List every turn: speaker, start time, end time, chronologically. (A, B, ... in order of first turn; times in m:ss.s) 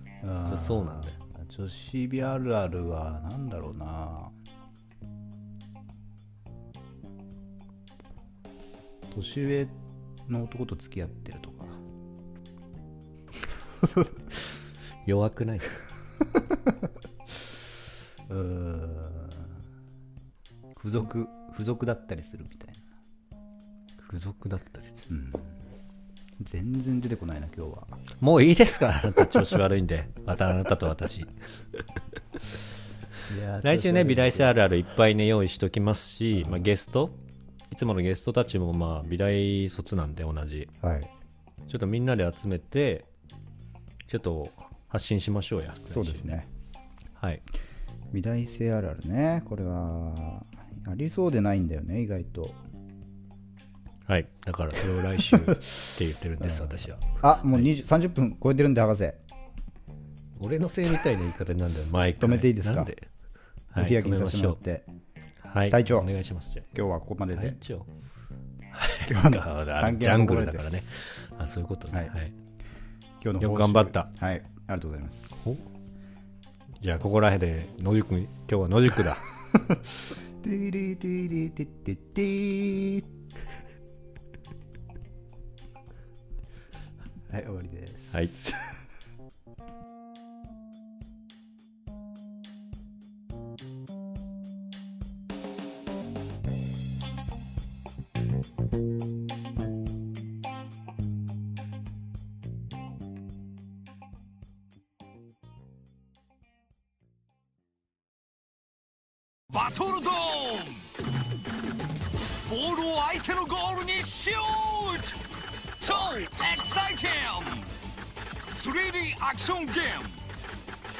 0:00.2-0:04.3 A
0:00.4-0:01.1 B
0:09.1-0:09.8 A
0:10.3-0:11.8 A
0:15.0-0:15.8 B
0:18.3-0:19.5 A
0:20.8-0:22.8 A
0:24.0-0:25.1 B
0:25.1-0:25.6 A
0:26.4-0:28.0 A
0:28.2-0:31.3 B
0:33.3-0:34.5 A
0:33.6-0:37.2 B
0:36.3-0:36.7 A
0:37.7-0:40.7 B
0:40.8-0:41.1 A
0:41.7-0:43.1 B
0:44.1-0:46.4 B
0:45.9-0:46.5 A
0:47.2-0:47.4 B
0:48.1-0:52.6 A
0:54.1-0:57.7 B
0:56.4-0:59.2 A
1:00.4-1:03.1 B
1:02.2-1:02.9 A
1:03.7-1:04.6 B
1:03.8-1:04.9 A
1:05.4-1:06.7 B
1:05.7-1:06.1 A
1:06.7-1:07.6 A
1:07.3-1:07.9 B
1:08.7-1:12.3 B
1:09.0-1:10.9 A
1:13.2-1:15.6 A
1:13.4-1:14.1 B
1:16.8-1:19.2 B
1:20.4-1:23.1 A
1:27.3-1:28.6 A
1:49.5-1:50.9 C
1:52.4-1:55.2 C
1:55.8-1:57.7 C
1:58.5-2:00.2 C